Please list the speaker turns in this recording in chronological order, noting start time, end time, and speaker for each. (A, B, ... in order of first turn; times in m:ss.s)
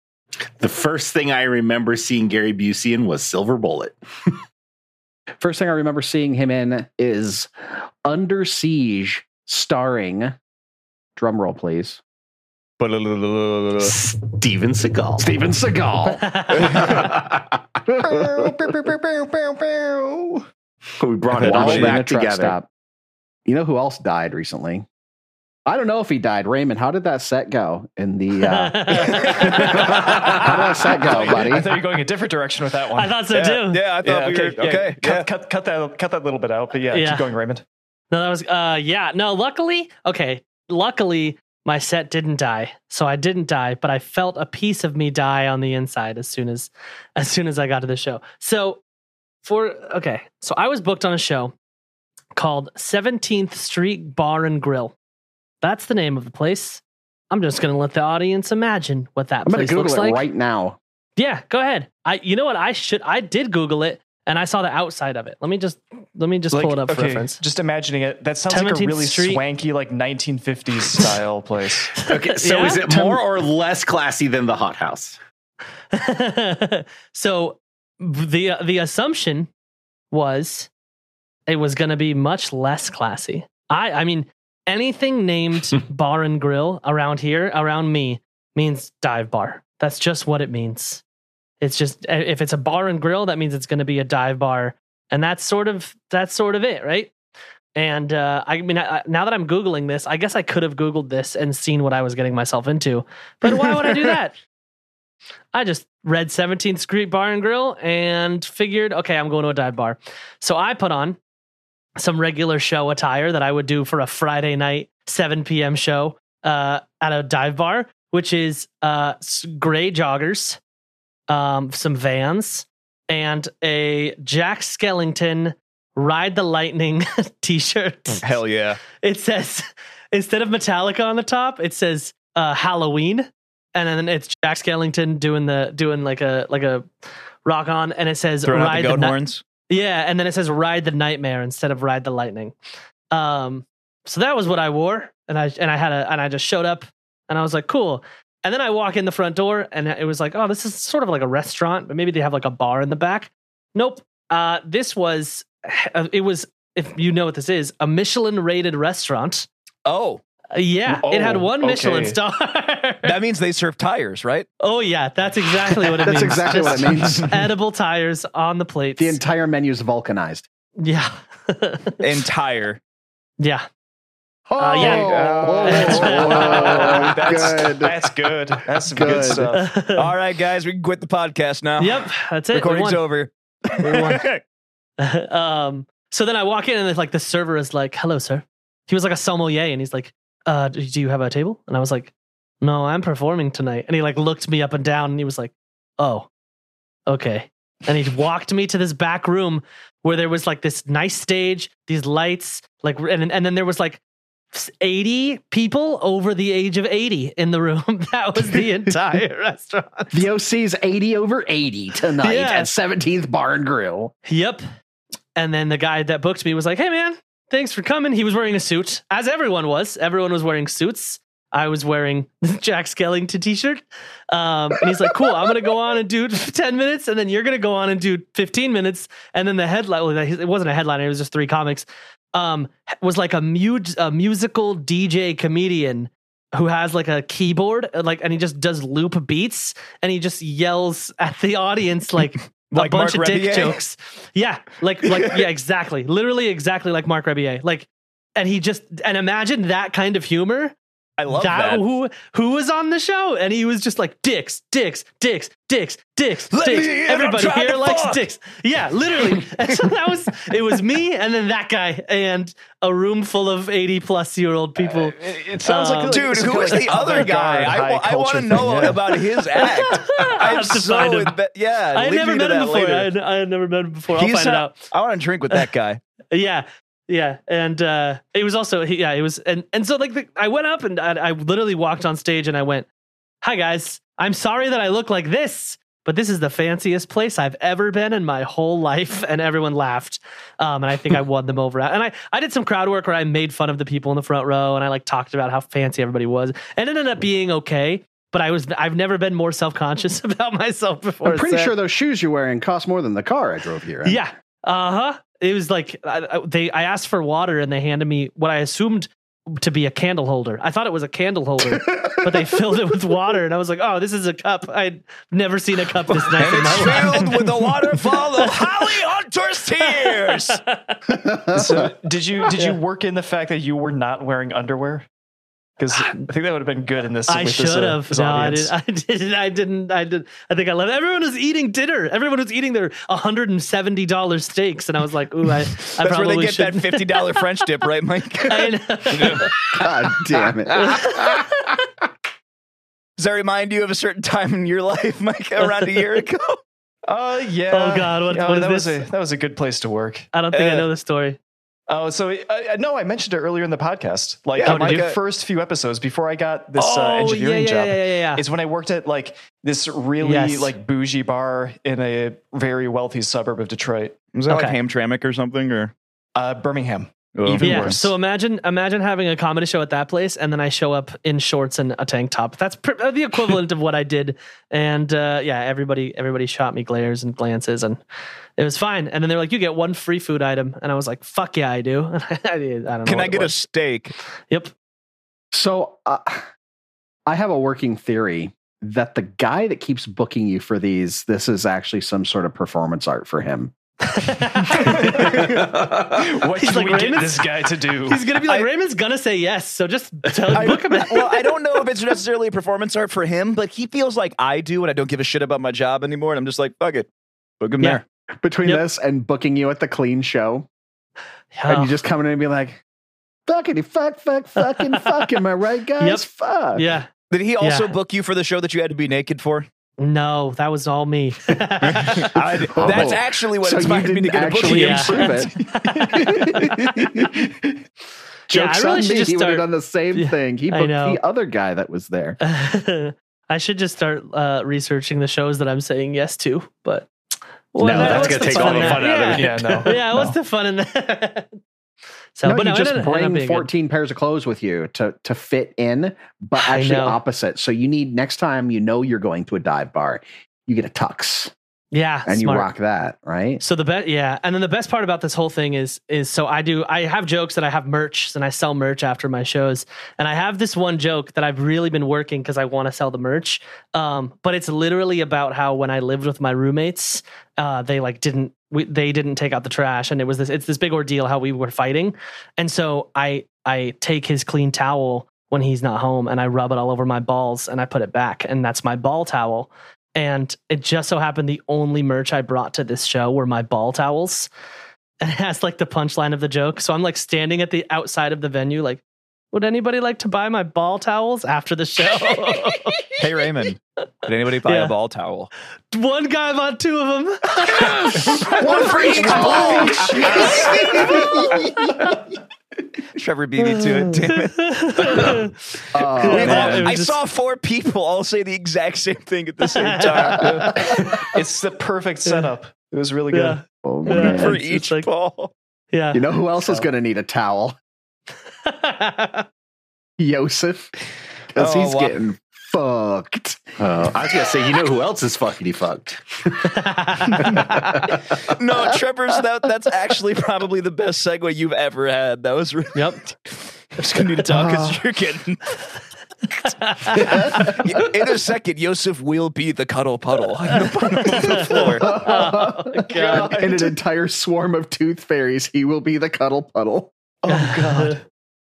0:00.6-0:04.0 A
0:05.4-0:07.5 B
0:08.0-0:10.4 B
0:11.2-0:12.0 B
0:12.8-0:13.9 C
0:13.8-0:15.2 A
0:15.2-0:17.1 B
0:16.0-0:16.8 D
0:16.6-0:17.6 A
0:16.6-0:17.0 C
0:17.9-0:18.5 B
0:18.0-0:20.4 E
0:21.0-0:22.6 A
0:21.4-0:22.7 B
0:21.4-0:22.0 C
0:23.4-0:24.8 B
0:25.6-0:31.8 B
0:28.4-0:29.7 D
0:29.2-0:29.8 C
0:29.7-0:30.4 A
0:30.0-0:37.6 E
0:33.0-0:33.8 D
0:33.7-0:35.3 C
0:36.9-0:37.3 D
0:38.1-0:48.8 D
0:49.4-0:51.5 D
0:52.4-0:54.9 D
0:55.6-1:00.2 D
0:59.4-1:00.8 B
1:01.2-1:07.4 D
1:06.5-1:12.0 E
1:08.5-1:09.4 D
1:12.0-1:15.2 A
1:12.1-1:13.0 D
1:15.9-1:19.5 D
1:20.1-1:20.7 D
1:21.5-1:31.0 D
1:31.6-1:37.1 D
1:37.8-1:44.4 D
1:45.5-1:51.2 D
1:52.0-2:00.6 D
2:01.3-2:08.4 D
2:08.2-2:08.8 C
2:09.0-2:16.9 D
2:17.4-2:19.2 D
2:18.4-2:19.4 C
2:19.7-2:22.5 D
2:23.1-2:39.5 D
2:39.8-2:40.2 C
2:40.5-2:43.1 D
2:40.9-2:42.2 E
2:43.0-2:44.5 C
2:44.6-2:49.2 D
2:46.0-2:47.3 B
2:46.8-2:47.3 E
2:49.0-2:50.4 B
2:50.8-2:52.0 D
2:52.0-2:52.8 C
2:53.4-2:53.6 D
2:54.4-2:58.0 B
2:54.6-2:57.0 D
2:54.8-2:57.8 C
2:55.1-2:59.7 E
2:58.9-2:59.5 B
2:59.5-3:00.1 D
3:00.0-3:04.4 C
3:01.8-3:03.0 D
3:03.8-3:04.3 D
3:05.0-3:16.3 D
3:17.1-3:24.0 D
3:24.5-3:30.2 D
3:30.1-3:34.1 B
3:32.2-3:32.7 D
3:34.3-3:34.6 D
3:35.4-4:10.7 D
4:02.7-4:03.8 C
4:05.0-4:05.4 C
4:11.2-4:11.9 C
4:11.3-4:26.3 D
4:16.5-4:18.2 C
4:24.8-4:29.2 E
4:26.1-4:33.1 C
4:29.6-4:31.4 D
4:31.9-4:34.8 D
4:34.1-4:36.0 C
4:36.3-4:42.9 D
4:43.4-5:01.7 D
5:01.2-5:04.2 B
5:04.0-5:17.4 D
5:11.7-5:12.2 B
5:16.4-5:17.3 E
5:16.4-5:20.6 C
5:18.4-5:19.0 D
5:19.8-5:21.1 D
5:21.3-5:21.9 B
5:21.5-5:25.0 E
5:22.5-5:22.8 D
5:25.8-5:28.7 E
5:25.9-5:26.3 D
5:27.3-5:37.4 D
5:35.9-5:39.6 C
5:38.5-5:39.5 D
5:39.7-5:41.1 B
5:40.8-5:41.3 D
5:43.2-5:46.6 C
5:47.0-5:50.3 E
5:47.7-5:49.0 D
5:50.3-5:51.4 D
5:50.5-5:50.9 C
5:51.9-6:04.2 E
5:54.6-5:55.2 C
5:54.6-5:55.1 D
5:56.8-5:58.4 D
6:00.2-6:00.8 D
6:04.3-6:05.9 C
6:04.5-6:04.8 D
6:06.3-6:08.1 E
6:07.3-6:07.9 C
6:07.6-6:18.0 D
6:18.6-6:23.6 D
6:23.0-6:24.1 C
6:25.5-6:26.4 B
6:27.3-6:33.7 B
6:34.1-6:35.5 D
6:34.6-6:38.3 E
6:36.6-6:41.5 D
6:40.5-6:47.1 C
6:47.6-6:48.0 C
6:48.4-6:50.7 B
6:51.5-6:51.9 D
6:51.7-6:52.8 B
6:53.4-6:56.9 B
6:54.6-6:55.1 D
6:56.0-6:57.1 D
6:57.3-6:59.7 C
6:57.6-6:57.9 D
7:00.0-7:02.3 D
7:01.9-7:05.5 C
7:02.7-7:05.5 B
7:04.7-7:06.7 D
7:06.0-7:07.4 B
7:08.5-7:12.4 B
7:08.5-7:11.2 D
7:12.4-7:17.1 D
7:17.7-7:21.5 D
7:17.8-7:20.0 A
7:17.8-7:20.4 E
7:22.3-7:23.7 D
7:22.4-7:31.5 B
7:26.6-7:27.2 D
7:31.9-7:32.7 D
7:32.2-7:33.6 B
7:33.6-8:04.5 D
8:05.2-8:13.2 D
8:13.2-8:15.5 C
8:14.6-8:14.9 D
8:15.9-8:22.1 D
8:18.4-8:21.4 C
8:18.4-8:21.6 B
8:19.2-8:20.4 E
8:23.1-8:25.3 C
8:23.6-8:25.5 D
8:25.9-8:26.9 B
8:26.2-8:27.2 D
8:26.3-8:30.8 C
8:29.7-8:31.1 D
8:30.3-8:33.6 E
8:33.3-8:35.1 D
8:33.8-8:34.6 B
8:34.1-8:35.5 C
8:35.9-8:36.2 D
8:36.1-8:37.8 B
8:38.6-8:39.4 D
8:40.2-8:41.0 B
8:41.5-8:43.7 B
8:41.6-8:42.1 C
8:43.8-8:46.7 A
8:46.7-8:47.6 D
8:47.4-8:48.5 A
8:48.4-8:55.8 C
8:52.9-8:53.2 D
8:54.5-8:55.0 B
8:56.6-8:57.8 D
8:57.0-9:02.2 C
9:01.2-9:03.6 D
9:02.0-9:07.1 B
9:03.1-9:03.8 C
9:07.4-9:08.2 E
9:07.5-9:08.1 D